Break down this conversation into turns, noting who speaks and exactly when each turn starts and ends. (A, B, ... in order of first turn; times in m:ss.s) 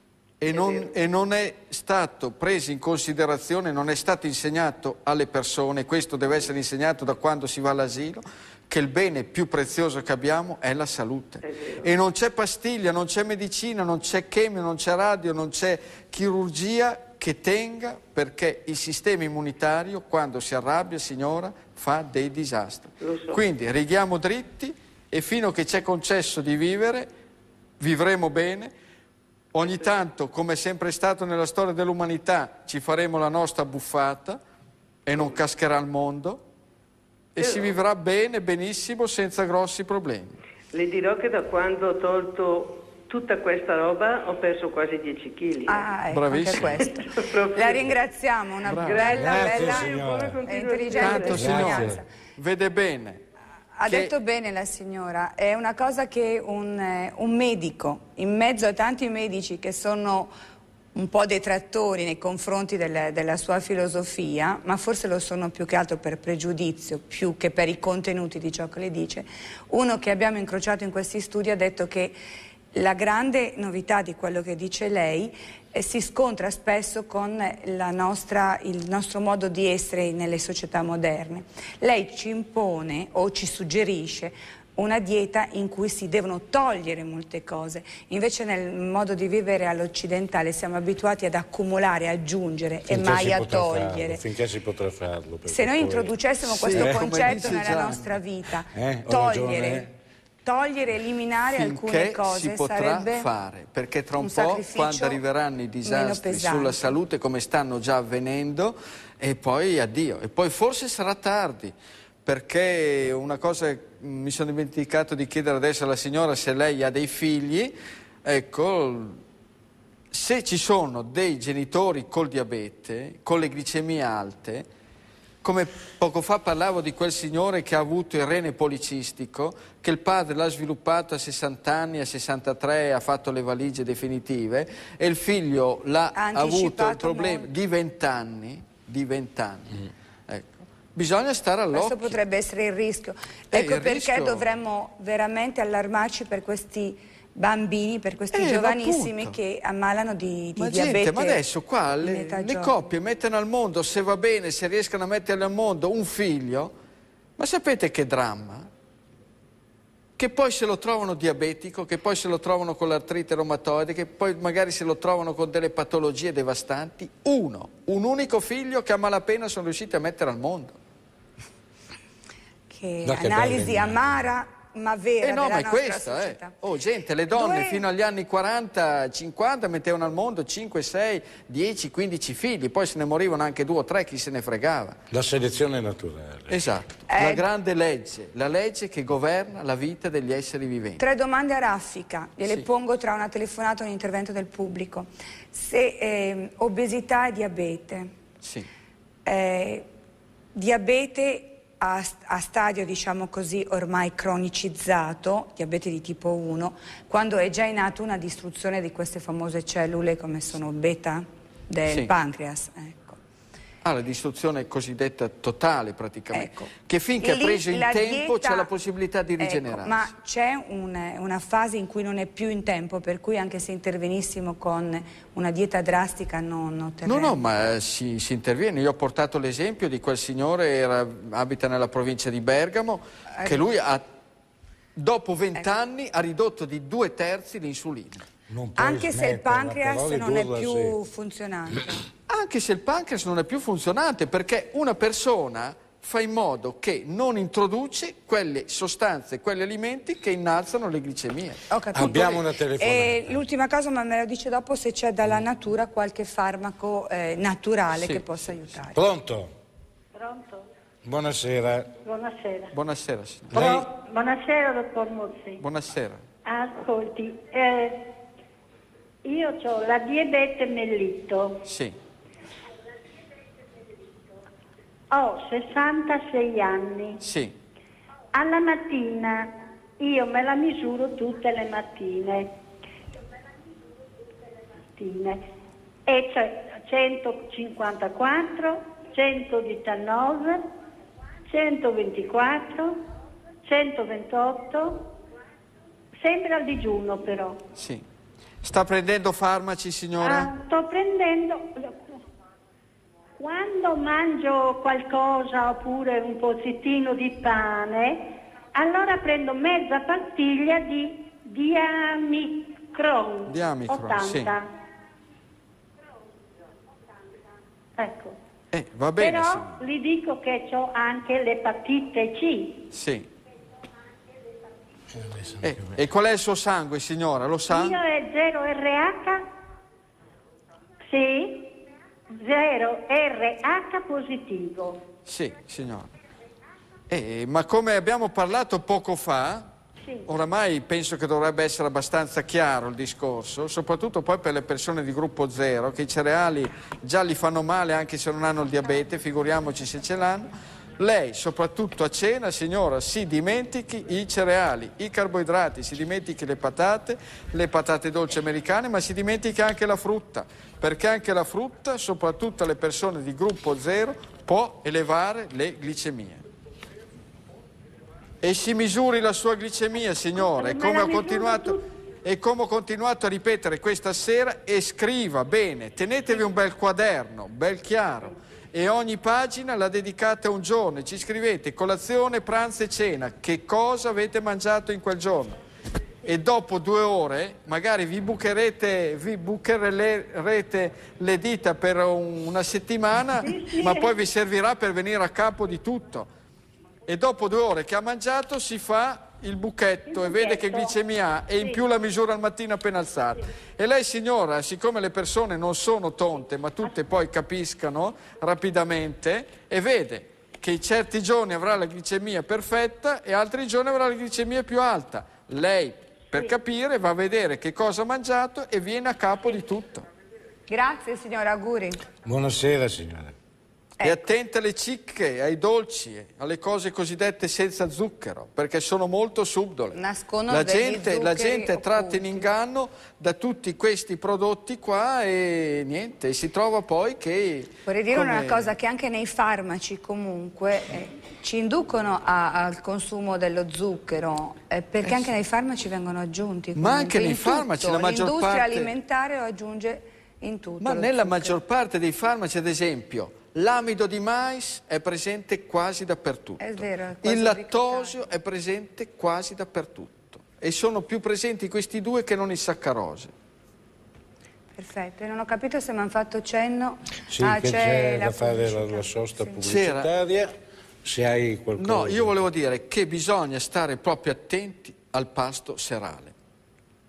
0:00.4-0:27.1 A
0:00.5-0:00.8 B
0:11.4-0:11.8 B
0:23.0-0:23.4 B
0:27.8-0:28.7 A
0:29.5-0:34.4 A
0:35.0-0:36.4 A
0:37.3-0:40.3 A
0:37.4-0:37.8 B
0:40.7-0:45.9 B
0:45.7-0:52.1 C
0:46.1-0:46.8 A
0:46.6-0:47.9 B
0:48.6-0:49.7 A
0:48.8-0:51.8 B
0:49.1-0:50.4 D
0:51.0-0:53.2 A
0:51.3-0:52.0 D
0:53.7-1:00.3 C
0:53.8-0:54.1 A
1:00.9-1:12.1 C
1:12.7-1:34.2 C
1:32.9-1:36.1 D
1:35.5-1:39.9 C
1:36.4-1:38.2 A
1:36.7-1:37.4 D
1:38.7-1:39.9 D
1:40.4-1:43.3 C
1:41.5-1:51.7 A
1:44.2-1:45.2 C
1:45.8-1:47.0 C
1:52.2-1:59.2 A
2:00.1-2:04.6 A
2:05.4-2:22.2 A
2:16.1-2:17.5 C
2:21.7-2:31.4 C
2:23.5-2:24.5 A
2:28.3-2:29.4 A
2:30.6-2:36.7 A
2:32.0-2:32.8 C
2:37.4-2:38.7 A
2:40.2-2:50.8 A
2:52.7-2:56.6 C
2:53.0-2:54.2 D
2:55.2-3:05.0 A
2:57.3-2:57.8 C
3:05.1-3:06.6 D
3:06.5-3:11.0 A
3:07.1-3:07.4 C
3:11.0-3:18.1 C
3:18.4-3:18.7 A
3:19.2-3:19.8 C
3:20.5-3:33.2 C
3:31.9-3:32.1 A
3:33.8-3:40.1 A
3:36.3-3:38.7 C
3:39.4-3:47.4 C
3:47.0-3:54.0 A
3:53.3-3:53.7 C
3:55.0-3:58.2 A
3:58.5-4:01.0 D
3:58.8-4:02.0 C
4:02.3-4:12.3 A
4:11.7-4:19.0 C
4:11.9-4:13.4 D
4:17.9-4:18.8 A
4:18.9-4:19.5 D
4:20.1-4:20.7 E
4:21.0-4:21.9 D
4:22.0-4:22.7 E
4:22.7-4:23.6 A
4:23.5-4:23.9 D
4:23.5-4:25.6 E
4:25.6-4:26.2 A
4:26.4-4:28.0 E
4:29.2-4:31.6 E
4:31.7-4:32.0 A
4:35.1-4:37.2 E
4:37.2-4:37.6 A
4:38.3-4:42.5 E
4:44.9-4:45.4 E
4:46.0-4:50.6 E
4:51.5-4:53.0 E
4:53.6-4:55.1 E
4:56.2-4:57.6 E
4:57.8-4:58.0 A
4:58.6-5:00.5 A
5:00.2-5:02.0 E
5:03.4-5:14.7 E
5:13.4-5:14.5 A
5:18.0-5:18.4 E
5:18.7-5:19.8 A
5:19.2-5:22.8 E
5:22.9-5:23.3 A
5:25.1-5:26.0 D
5:25.6-5:28.0 A
5:27.7-5:29.4 E
5:31.1-5:31.7 E
5:32.3-5:35.0 E
5:35.2-5:36.1 A
5:37.1-5:39.7 A
5:40.3-6:06.4 A
6:08.4-6:25.6 A
6:10.4-6:11.8 E
6:26.2-6:36.3 A
6:33.4-6:34.1 E
6:37.1-7:00.0 A
6:40.1-6:40.9 E
7:00.7-7:02.0 C
7:02.2-7:03.3 D
7:04.0-7:04.2 C
7:04.0-7:10.0 A
7:09.9-7:12.5 C
7:10.5-7:18.7 A
7:17.8-7:31.6 C
7:25.0-7:25.3 A
7:26.8-7:28.9 A
7:30.8-7:43.3 A
7:36.6-7:38.2 C
7:44.7-7:49.6 C
7:47.3-7:50.5 D
7:49.6-7:50.1 A
7:51.0-7:52.4 D
7:51.8-7:56.3 A